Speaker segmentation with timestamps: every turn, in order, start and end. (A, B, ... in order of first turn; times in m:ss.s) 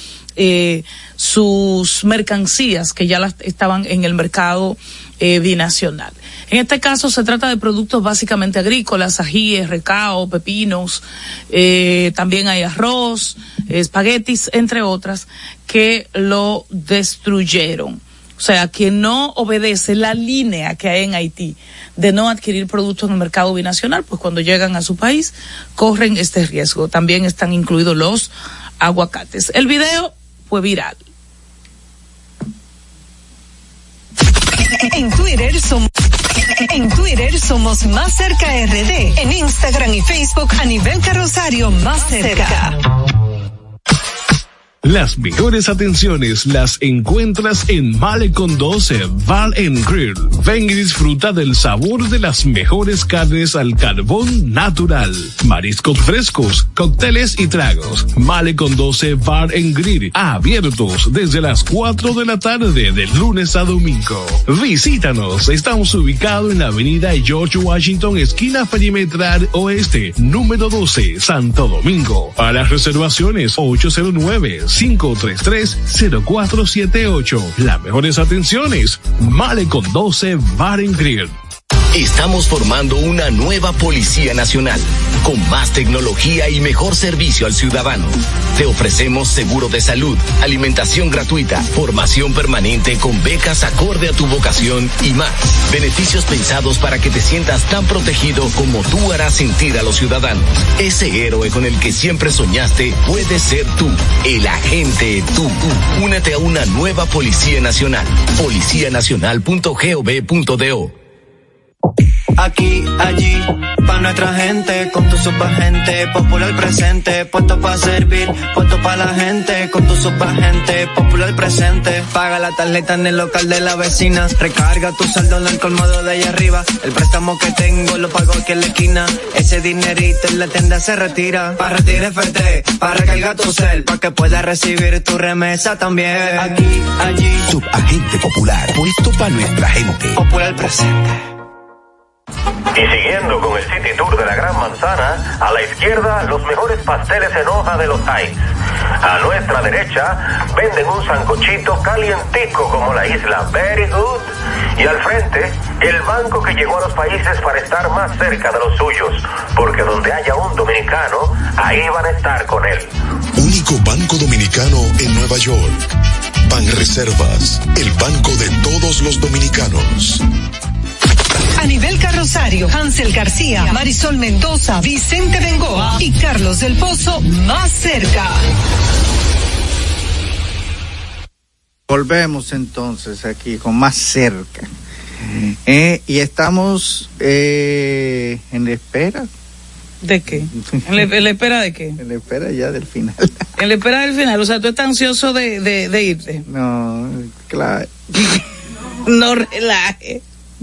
0:00.4-0:31.0 A
0:34.9-0:35.9 B
0:36.7-0:42.8 B
0:44.8-1:21.3 C
1:21.9-1:50.9 D
1:52.4-2:17.5 E
2:17.5-2:20.2 F
2:20.2-2:21.2 E
2:22.8-2:28.4 G
2:29.0-2:42.9 G
2:43.4-2:45.8 H
2:46.4-2:50.2 H
2:51.6-2:58.4 B
3:01.9-3:04.7 I
3:05.3-3:09.3 I
3:10.0-3:12.0 A
3:10.6-3:10.8 I
3:12.0-3:13.3 I
3:13.6-3:16.4 A
3:16.5-3:18.1 I
3:19.0-3:20.2 A